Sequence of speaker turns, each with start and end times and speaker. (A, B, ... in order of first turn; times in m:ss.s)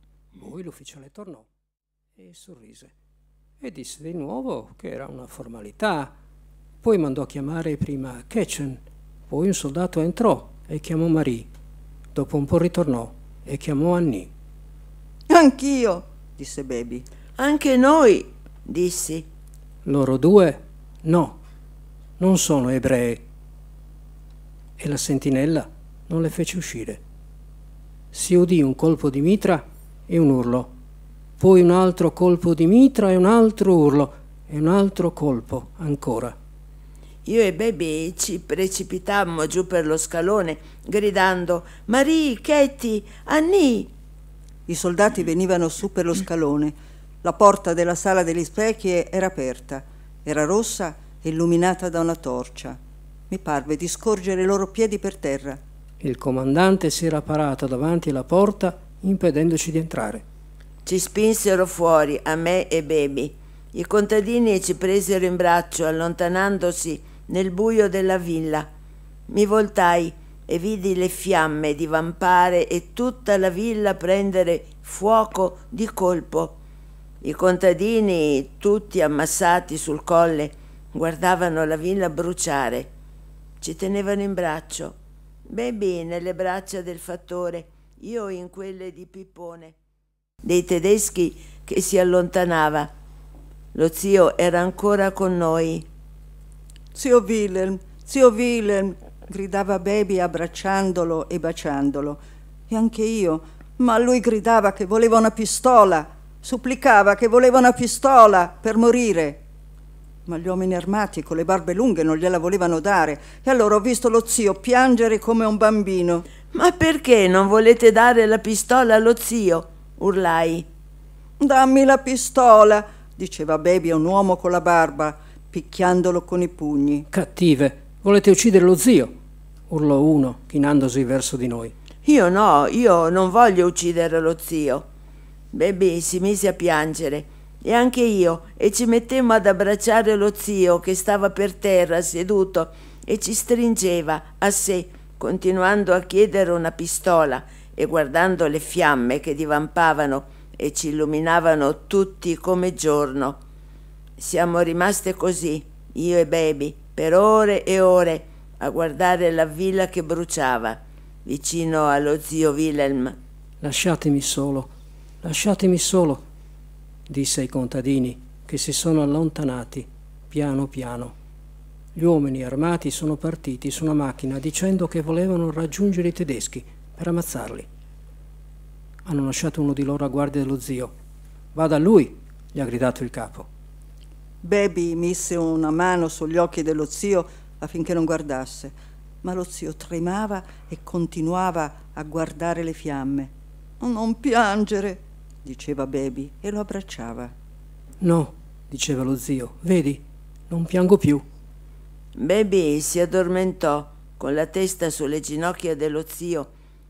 0:00.4-0:01.5 A
0:02.2-0:02.9 A
0:03.6-0:06.1 A
0:06.8-0:11.5 A
0:12.1-0:14.3 A
0:15.3-0:17.1 B
0:17.4-0:19.3 C
0:19.8-0:21.4 A
0:22.2-0:23.2 A
0:24.8-0:27.0 A
0:28.1-0:30.7 A
0:31.4-0:36.4 A
0:37.3-0:43.9 C
0:44.7-0:52.8 B
0:53.3-0:55.6 B
0:56.0-1:00.2 A
1:00.9-1:08.7 C
1:09.3-1:16.6 C
1:17.2-1:22.9 C
1:23.6-1:25.0 C
1:25.5-1:29.8 C
1:30.4-1:32.9 C
1:33.7-1:35.9 C
1:36.9-1:49.4 B
1:50.3-1:56.3 B
1:56.5-2:00.7 C
2:01.4-2:07.1 B
2:07.1-2:09.1 A
2:09.7-2:11.7 A
2:12.0-2:14.9 C
2:15.5-2:33.4 C
2:34.2-2:43.2 C
2:43.6-2:44.7 A
2:45.2-2:46.2 A
2:47.1-2:51.1 A
2:52.0-2:57.7 A
2:59.0-3:00.9 A
3:01.5-3:03.5 A
3:04.4-3:17.3 B
3:18.0-3:21.3 A
3:22.2-3:26.5 C